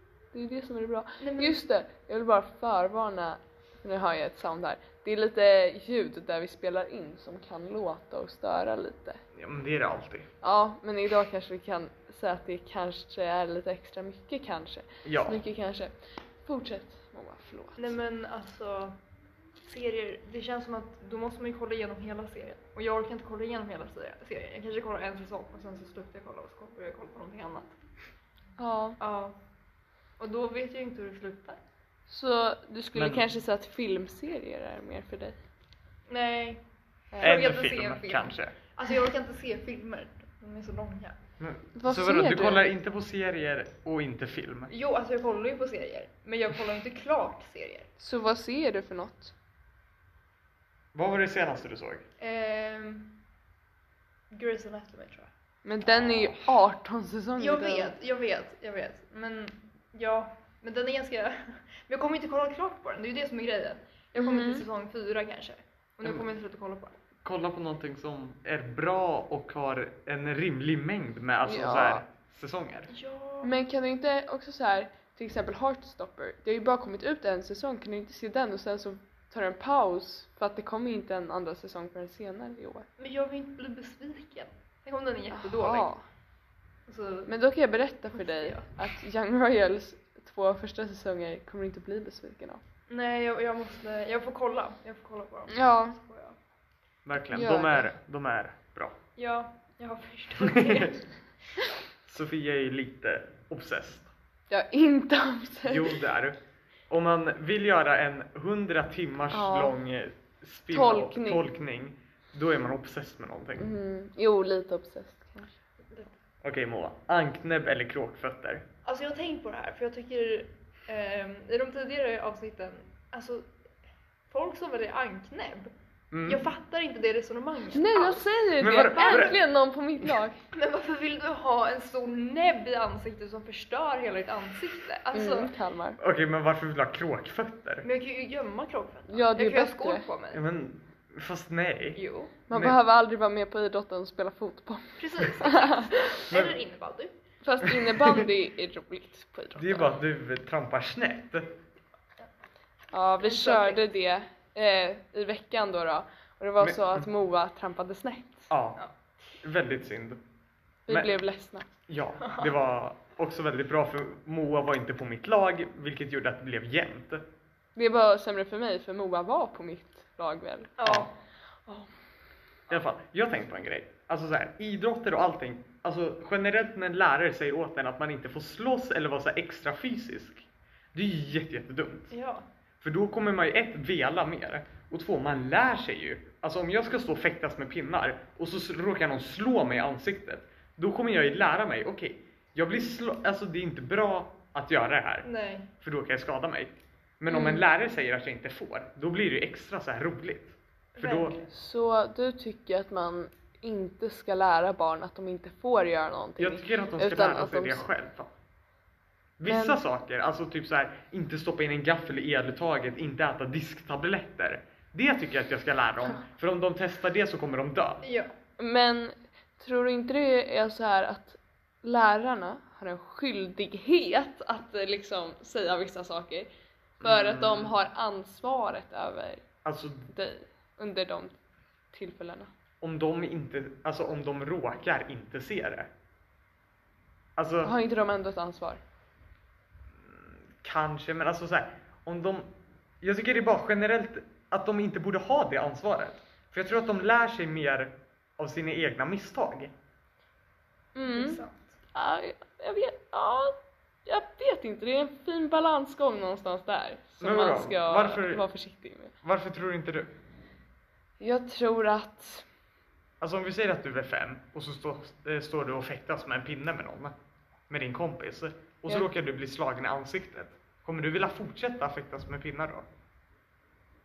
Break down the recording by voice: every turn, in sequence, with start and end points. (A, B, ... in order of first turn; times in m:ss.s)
0:00.3-0:09.2 A
0:01.2-0:01.6 B
0:09.3-0:10.3 C
0:10.4-0:17.9 A
0:15.0-0:15.4 C
0:17.8-0:19.0 B
0:19.6-0:27.7 B
0:28.6-0:29.0 A
0:29.0-0:29.3 B
0:30.2-0:31.6 B
0:32.1-0:35.4 A
0:32.9-0:33.2 C
0:36.1-0:36.6 B
0:37.2-0:41.2 B
0:37.2-0:38.5 C
0:41.4-0:44.7 C
0:41.8-0:42.6 A
0:44.7-0:47.9 B
0:48.0-0:49.3 A
0:50.9-0:52.0 C
0:52.2-0:53.1 B
0:54.3-0:55.3 B
0:55.6-0:57.9 A
0:57.4-1:07.0 B
1:04.2-1:04.6 A
1:07.2-1:12.9 C
1:11.4-1:12.0 A
1:12.9-1:13.5 B
1:13.4-1:22.9 A
1:23.0-1:25.9 B
1:25.3-1:26.0 A
1:26.9-1:27.3 B
1:27.3-1:32.6 A
1:28.1-1:28.7 B
1:32.9-1:36.4 B
1:35.5-1:36.0 A
1:37.0-1:39.0 C
1:37.3-1:37.9 A
1:39.2-1:41.1 B
1:40.4-1:40.9 C
1:42.0-1:44.1 C
1:44.5-1:45.9 A
1:45.6-1:46.4 C
1:46.9-1:53.7 C
1:49.3-1:49.7 A
1:50.7-1:51.4 A
1:53.6-1:55.5 A
1:56.4-1:58.6 C
1:58.8-2:03.5 B
2:04.3-2:05.7 B
2:06.1-2:06.5 C
2:06.2-2:08.4 B
2:07.7-2:10.4 A
2:08.6-2:09.4 C
2:08.9-2:09.4 B
2:10.5-2:15.5 B
2:15.1-2:16.0 A
2:16.0-2:17.8 C
2:17.8-2:20.4 B
2:19.1-2:20.0 A
2:20.3-2:22.0 C
2:21.9-2:22.3 B
2:22.5-2:26.2 A
2:22.5-2:22.8 C
2:25.0-2:27.1 B
2:26.3-2:26.6 C
2:27.4-2:30.0 A
2:27.7-2:28.1 C
2:29.6-2:31.5 C
2:32.9-2:38.5 A
2:33.2-2:33.9 B
2:36.6-2:37.1 C
2:38.5-2:38.8 C
2:39.4-2:40.2 C
2:40.9-2:41.7 A
2:41.9-2:47.2 C
2:42.2-2:42.5 B
2:47.7-2:50.8 A
2:50.8-2:51.1 B
2:50.8-2:51.1 C
2:52.7-3:02.1 C
3:02.1-3:02.4 B
3:02.8-3:15.3 C
3:15.2-3:15.7 B
3:15.8-3:21.4 C
3:17.3-3:17.6 A
3:21.0-3:21.5 B
3:21.5-3:27.8 A
3:26.4-3:28.3 C
3:29.4-3:38.0 C
3:29.4-3:29.8 A
3:38.0-3:38.3 B
3:38.6-3:46.5 A
3:47.0-3:47.7 C
3:47.0-3:49.4 A
3:49.6-3:50.1 C
3:50.1-3:51.4 A
3:51.9-3:52.5 A
3:52.8-3:55.9 C
3:57.4-3:57.7 C
3:57.6-3:58.8 A
4:00.0-4:09.7 C
4:11.0-4:11.4 A
4:11.0-4:11.8 B
4:11.9-4:19.1 A
4:17.2-4:18.4 C
4:19.2-4:20.1 C
4:21.2-4:22.4 A
4:23.2-4:27.1 C
4:27.7-4:32.8 C